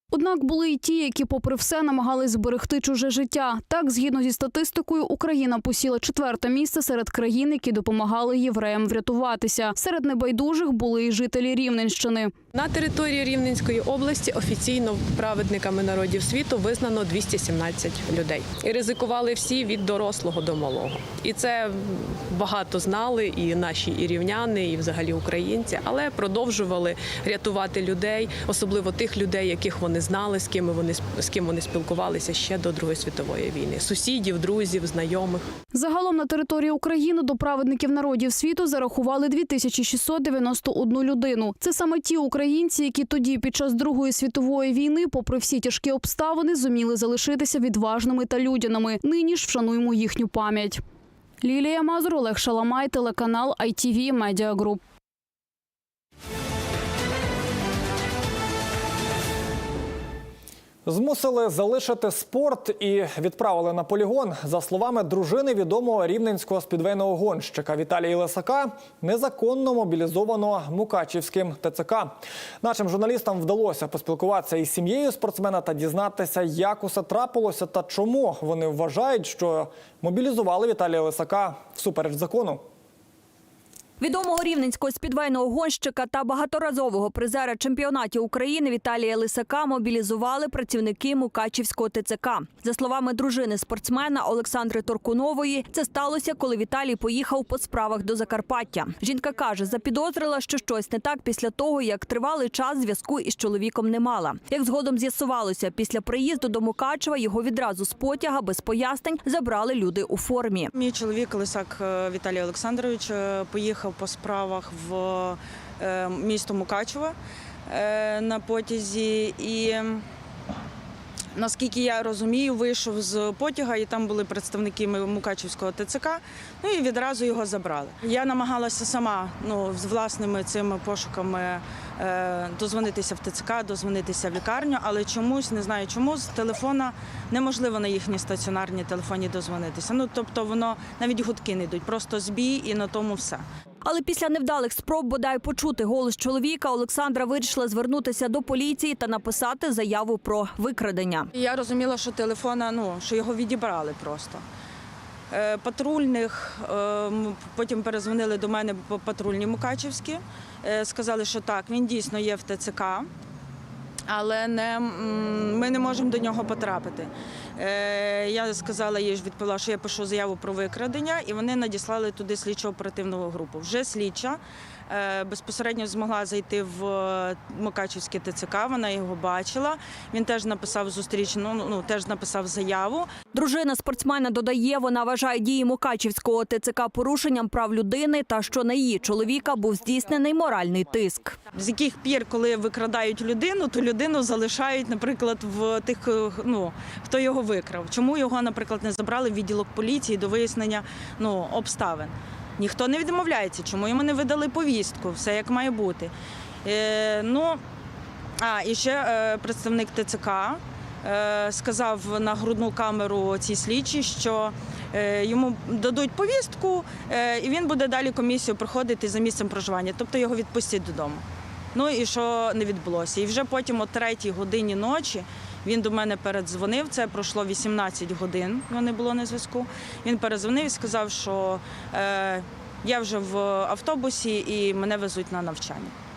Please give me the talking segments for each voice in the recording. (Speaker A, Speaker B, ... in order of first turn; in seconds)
Speaker A: 0.1-12.3, 35.7-50.8, 51.4-54.8
Speaker B: 12.5-35.4
Speaker C: 60.9-82.6
Speaker D: 84.0-110.7, 143.8-151.3, 183.3-191.4
Speaker E: 110.7-117.1, 117.7-120.0, 121.3-143.4, 151.3-154.4, 155.3-163.1, 164.1-183.1, 191.5-206.1, 206.6-207.6, 208.4-221.2, 221.7-235.9